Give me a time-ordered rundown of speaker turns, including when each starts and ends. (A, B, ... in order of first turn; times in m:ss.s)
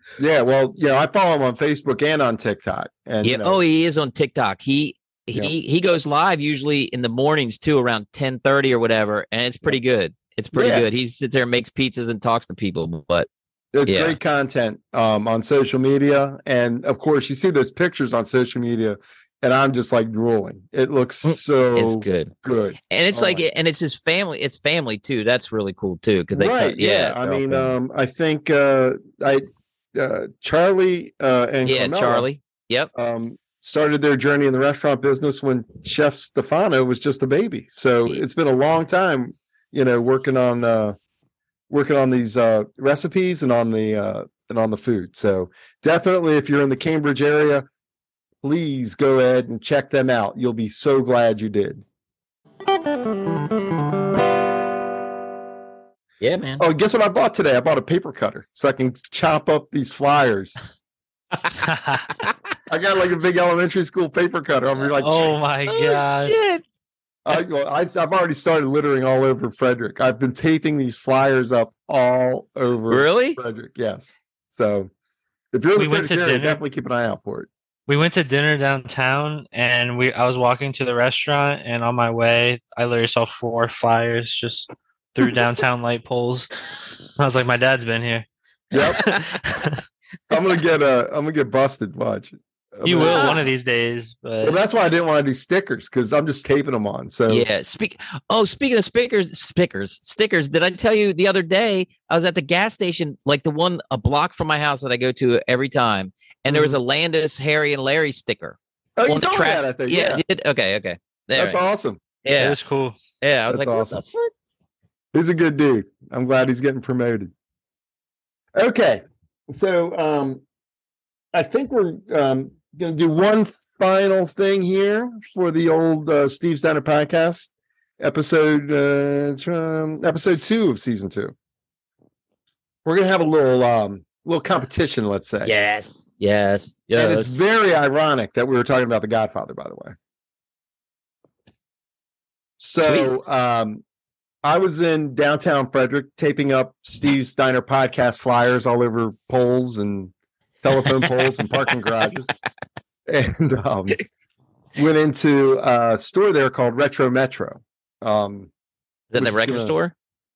0:00.2-0:03.6 A
0:03.2-0:13.3 B
0:10.5-0:10.9 A
0:13.7-0:23.4 A
0:13.9-0:14.2 B
0:21.2-0:22.3 B
0:22.9-0:27.7 B
0:26.3-0:32.3 A
0:31.6-0:32.9 B
0:32.9-0:41.0 A
0:41.7-0:47.7 A
0:48.4-0:51.8 A
0:56.2-0:56.6 B
0:56.6-1:00.6 A
1:01.6-1:02.1 C
1:02.7-1:05.3 A
1:05.0-1:06.4 C
1:05.7-1:06.6 B
1:07.2-1:14.9 A
1:12.9-1:13.4 B
1:15.5-1:17.5 A
1:15.8-1:16.6 C
1:17.9-1:26.5 C
1:27.2-1:28.3 C
1:28.7-1:29.0 A
1:28.9-1:29.8 C
1:29.0-1:29.2 B
1:30.3-1:33.4 A
1:32.8-1:34.6 C
1:33.0-1:33.4 B
1:34.4-1:37.5 A
1:37.3-1:51.6 B
1:46.5-1:46.8 A
1:49.0-1:50.2 A
1:51.3-1:52.0 A
1:52.2-1:52.6 B
1:52.3-1:53.0 C
1:53.2-1:54.3 B
1:53.5-1:54.0 A
1:55.1-1:57.3 A
1:58.6-2:00.4 A
2:01.3-2:11.3 A
2:12.8-2:15.5 A
2:15.4-2:17.3 B
2:17.0-2:20.0 A
2:22.6-2:23.8 A
2:22.8-2:23.1 B
2:24.4-2:32.3 A
2:33.1-2:34.0 A
2:34.8-2:38.5 A
2:39.1-2:39.9 B
2:39.2-2:39.8 A